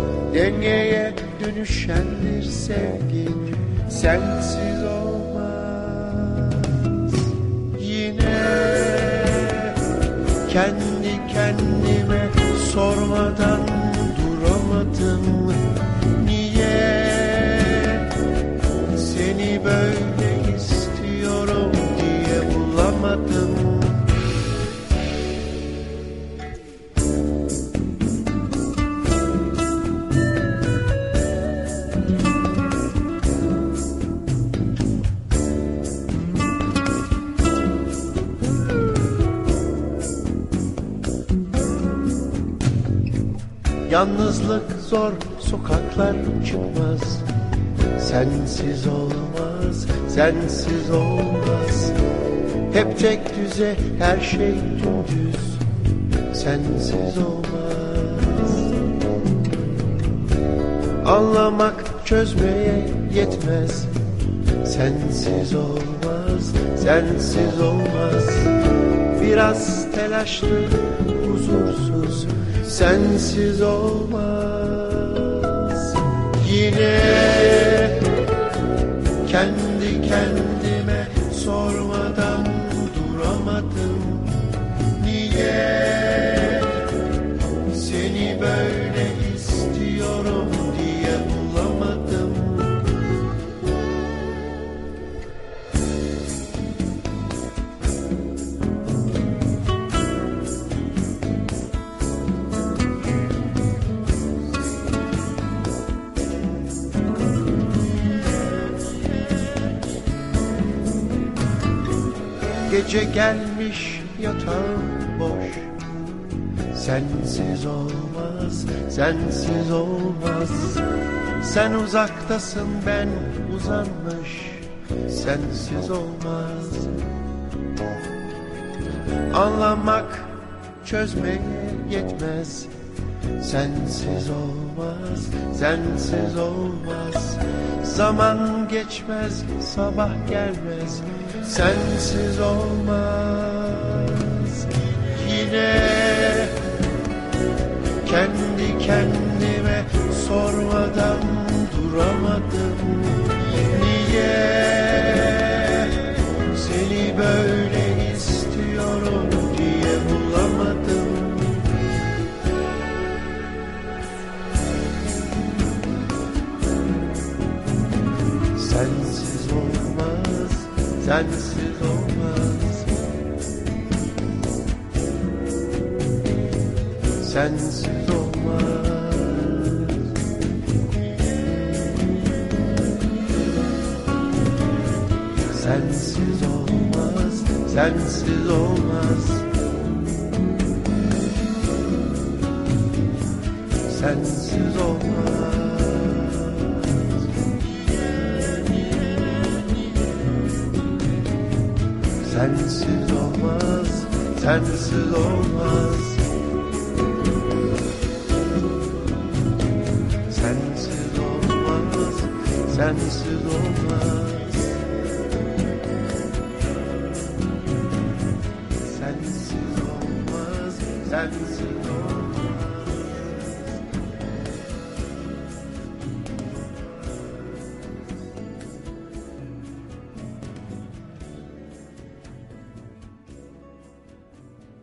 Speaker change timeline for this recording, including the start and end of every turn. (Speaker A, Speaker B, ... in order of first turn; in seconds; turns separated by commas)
Speaker A: 0.3-7.2, Speaker A: 7.8-9.8, Speaker A: 10.5-15.6, Speaker A: 16.1-18.1, Speaker A: 18.9-24.1, Speaker A: 43.9-47.2, Speaker A: 48.0-51.9, Speaker A: 52.7-55.6, Speaker A: 56.3-58.7, Speaker A: 61.0-63.9, Speaker A: 64.6-68.5, Speaker A: 69.1-78.0, Speaker A: 79.2-84.3, Speaker A: 85.0-86.8, Speaker A: 87.7-92.8, Speaker A: 112.7-115.7, Speaker A: 116.7-120.8, Speaker A: 121.4-126.9, Speaker A: 129.3-132.7, Speaker A: 133.4-146.5, Speaker A: 148.0-156.0, Speaker A: 156.5-161.6, Speaker A: 168.6-173.0, Speaker A: 177.2-180.0, Speaker A: 185.5-189.5, Speaker A: 193.9-197.1, Speaker A: 202.2-206.2, Speaker A: 210.3-214.8, Speaker A: 218.8-223.3